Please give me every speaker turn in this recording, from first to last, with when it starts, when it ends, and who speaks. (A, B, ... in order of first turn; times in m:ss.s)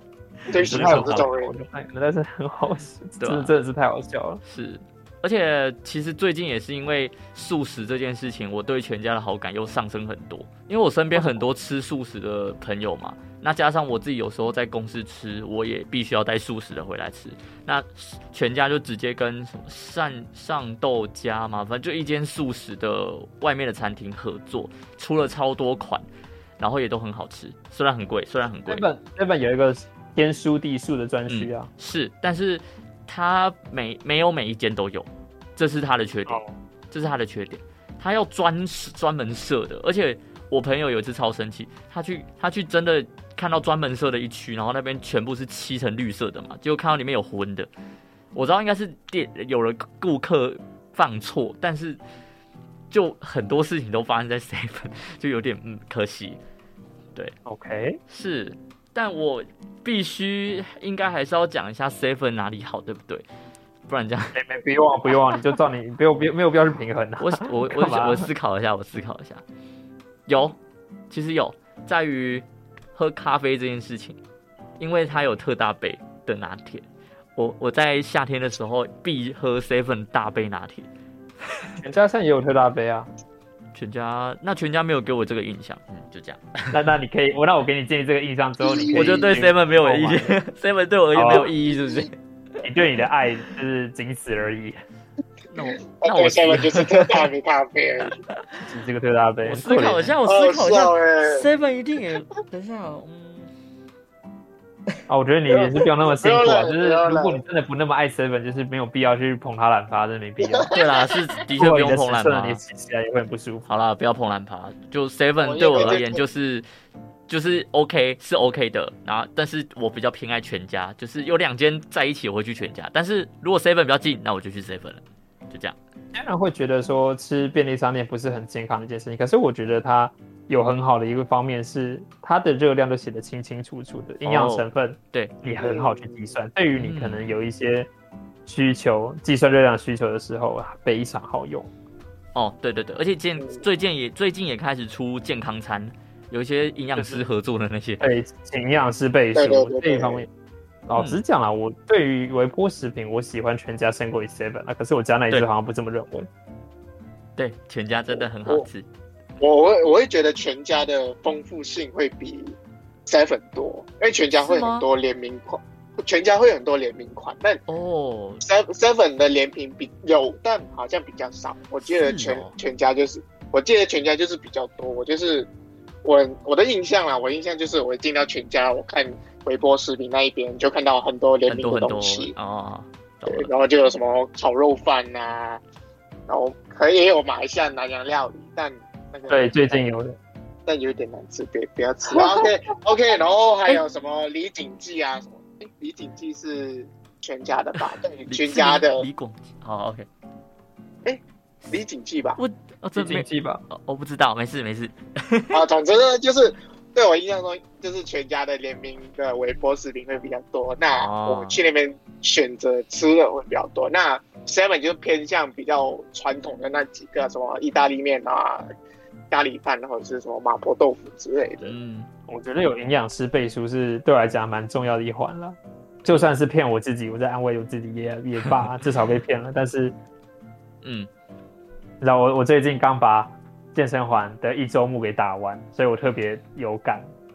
0:00.5-0:01.5 A
0:00.6-0:01.3 B
0:00.6-0:04.4 C
0:03.2-0:03.5 B
0:04.4-0:26.0 B
0:11.1-0:11.4 C
0:26.6-0:28.8 B
0:28.7-0:31.7 C
0:31.3-0:47.7 B
0:36.3-0:36.6 C
0:48.3-0:52.0 B
0:52.9-0:56.4 B
0:57.4-0:58.0 C
0:58.1-1:03.2 B
1:03.9-1:04.4 B
1:04.3-1:08.3 C
1:07.2-1:09.4 B
1:10.3-1:10.6 B
1:11.1-1:14.2 B
1:14.8-1:16.8 B
1:17.4-1:20.9 B
1:21.8-1:23.1 C
1:23.7-1:26.8 B
1:26.7-1:30.4 C
1:28.6-1:29.3 A
1:28.9-1:32.1 B
1:31.1-1:31.5 C
1:32.6-1:34.8 C
1:35.5-1:37.2 B
1:36.0-1:38.2 A
1:38.3-1:38.6 B
1:38.6-1:40.1 C
1:39.4-1:43.5 B
1:40.2-1:41.4 A
1:45.1-1:50.7 C
1:45.5-1:47.4 A
1:50.4-1:50.8 A
1:50.7-1:52.6 B
1:51.6-1:53.6 C
1:53.7-1:56.6 B
1:55.4-1:56.2 A
1:57.3-2:05.8 B
2:06.1-2:17.9 C
2:14.2-2:15.3 B
2:15.5-2:16.1 A
2:16.8-2:17.2 B
2:18.4-2:21.7 C
2:22.3-2:28.0 B
2:27.0-2:27.2 C
2:28.0-2:30.3 C
2:29.3-2:30.2 A
2:30.9-2:36.3 C
2:31.0-2:31.2 B
2:37.4-2:38.9 B
2:38.1-2:38.6 A
2:39.4-2:47.6 A
2:44.4-2:44.8 B
2:47.7-2:48.4 B
2:48.4-2:55.5 A
2:51.8-2:52.5 B
2:56.0-3:02.3 A
3:01.5-3:03.5 B
3:03.2-3:05.6 A
3:06.3-3:09.8 A
3:09.3-3:10.2 C
3:10.6-3:19.1 A
3:12.2-3:12.4 C
3:18.3-3:20.1 B
3:21.0-3:22.4 A
3:22.4-3:25.6 B
3:23.0-3:23.6 C
3:25.5-3:38.7 A
3:31.0-3:31.6 B
3:39.3-3:41.8 A
3:41.6-3:42.1 B
3:42.3-3:50.0 C
3:50.8-3:51.1 B
3:52.0-3:57.1 C